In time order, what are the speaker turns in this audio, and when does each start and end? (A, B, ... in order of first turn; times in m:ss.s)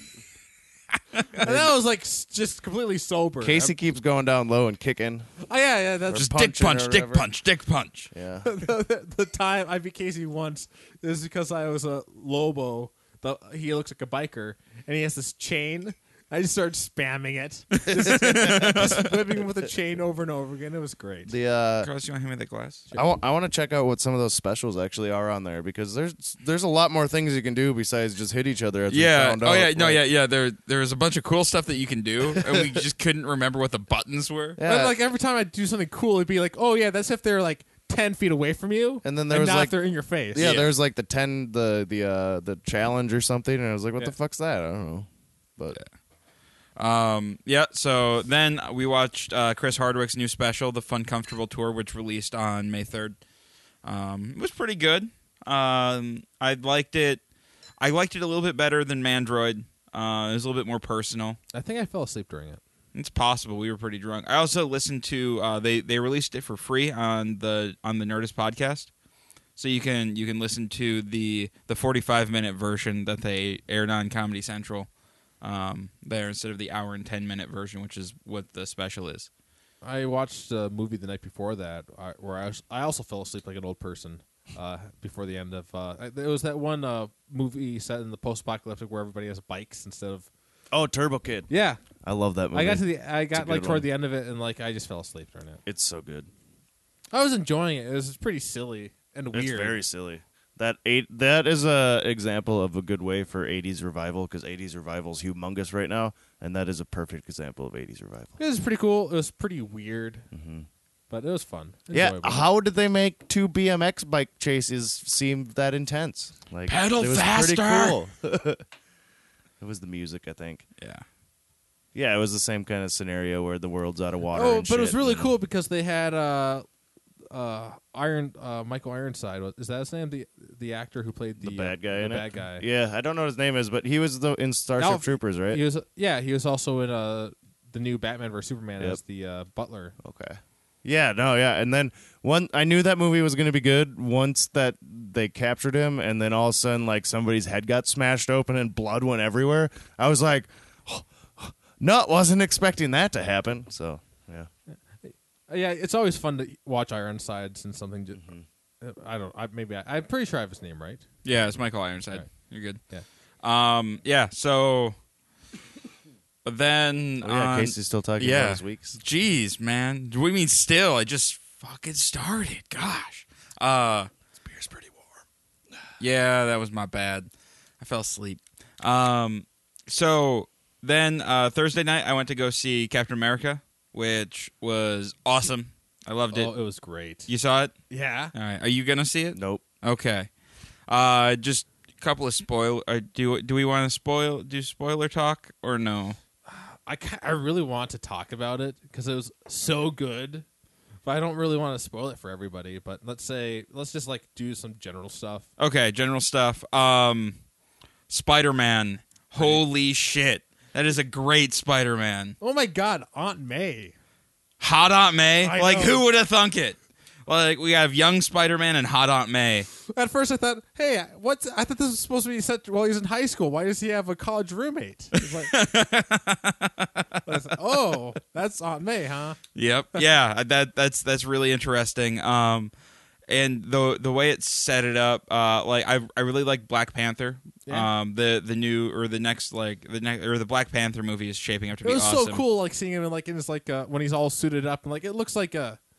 0:01.4-0:03.7 A
0:01.4-0:01.7 B
0:03.4-0:05.3 B
0:05.5-0:06.3 A
0:06.1-0:07.3 B
0:06.1-0:08.1 C
0:08.1-0:08.5 B
0:08.4-0:21.3 A
0:17.9-0:19.1 B
0:18.0-0:19.1 C
0:21.3-0:21.9 B
0:21.8-0:22.9 C
0:23.0-0:30.0 B
0:28.9-0:34.6 C
0:32.4-0:32.8 B
0:34.6-0:35.0 B
0:34.6-0:40.5 A
0:39.0-0:39.8 B
0:40.3-0:45.8 B
0:40.4-0:40.7 C
0:46.8-0:53.2 C
0:53.8-0:57.2 C
0:57.8-1:01.4 C
1:01.5-1:02.6 A
1:02.9-1:08.9 C
1:09.6-1:14.9 C
1:15.4-1:19.3 C
1:19.8-1:30.3 A
1:30.7-1:31.5 B
1:31.5-1:31.8 A
1:32.0-1:33.9 B
1:32.5-1:35.6 A
1:35.7-1:36.3 B
1:37.1-1:39.8 A
1:39.3-1:48.4 B
1:48.4-1:50.3 A
1:50.3-1:50.7 B
1:51.1-1:52.5 A
1:51.9-1:58.6 B
1:56.7-1:58.0 C
1:59.6-2:00.6 B
2:00.8-2:01.0 C
2:01.9-2:05.3 B
2:04.3-2:06.7 A
2:07.3-2:12.7 A
2:11.4-2:15.6 B
2:14.8-2:20.0 A
2:20.0-2:34.5 B
2:34.7-2:38.2 A
2:38.2-2:38.4 B
2:38.8-2:41.0 A
2:41.2-2:42.8 C
2:43.4-2:45.0 C
2:46.4-2:54.1 C
2:47.2-2:49.0 B
2:54.4-2:55.2 B
2:56.0-2:57.3 C
2:57.8-3:06.5 C
3:06.3-3:07.3 A
3:07.3-3:07.7 C
3:07.9-3:08.3 A
3:08.3-3:10.3 C
3:09.4-3:09.6 B
3:10.9-3:16.2 C
3:16.5-3:20.4 A
3:21.0-3:25.5 A
3:25.6-3:27.4 C
3:28.1-3:32.4 C
3:29.4-3:29.6 A
3:32.4-3:34.0 A
3:34.6-3:39.7 C
3:35.4-3:36.0 A
3:39.9-3:45.5 A
3:45.2-3:47.3 C
3:47.3-3:49.4 A
3:49.6-3:52.7 C
3:53.3-4:02.4 C
4:01.8-4:05.8 A